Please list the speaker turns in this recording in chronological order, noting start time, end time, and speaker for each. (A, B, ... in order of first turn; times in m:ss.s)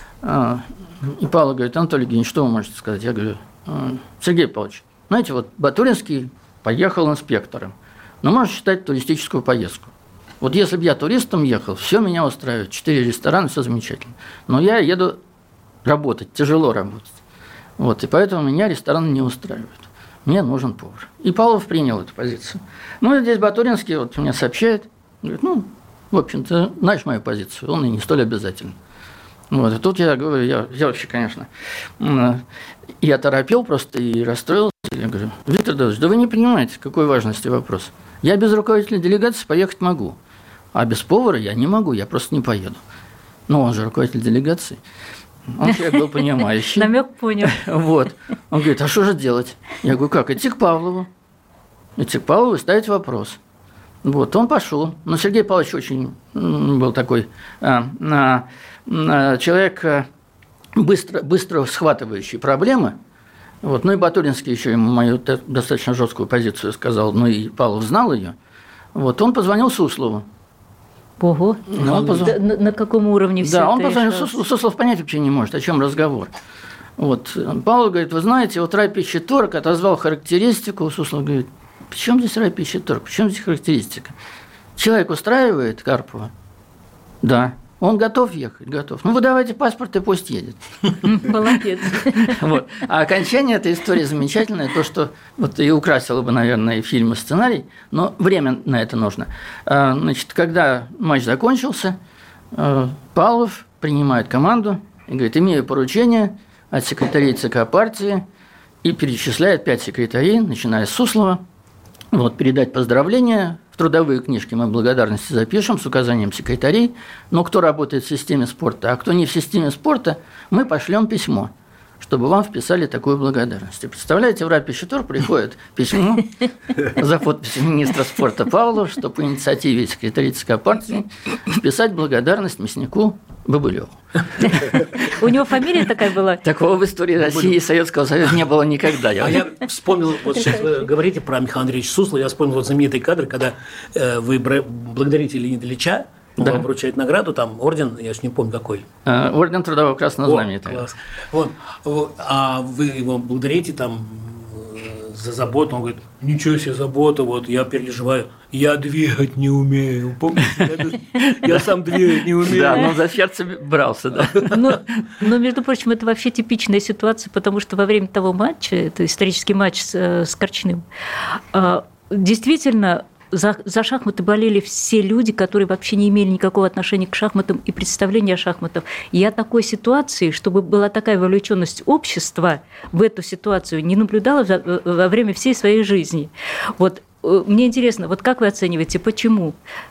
0:00.2-0:15.2 A
0:15.8-0:17.2 A
0:17.8-0:28.8 A
0:29.5-0:31.5 A
0:32.0-0:32.4 A
0:33.0-0:40.2 A
0:40.7-0:42.8 A
0:43.5-0:44.8 A
0:45.5-0:51.1 A
0:46.7-0:47.6 B
0:52.0-0:53.4 A
0:54.0-1:00.1 A
1:00.8-1:03.0 A
1:03.6-1:08.4 A
1:09.0-1:10.3 A
1:11.2-1:14.4 B
1:11.7-1:12.3 A
1:11.9-1:12.3 C
1:13.4-1:16.3 A
1:17.0-1:24.1 A
1:24.8-1:26.3 A
1:27.2-1:42.0 A
1:31.0-1:32.4 B
1:42.5-1:48.2 A
1:48.8-1:51.4 A
1:52.1-2:14.8 A
2:14.4-2:16.4 B
2:16.4-2:19.4 A
2:17.2-2:17.5 C
2:19.2-2:28.9 C
2:26.4-2:26.6 A
2:29.1-2:30.8 A
2:30.2-2:43.0 C
2:41.2-2:41.6 A
2:42.4-2:44.8 A
2:44.5-3:09.6 B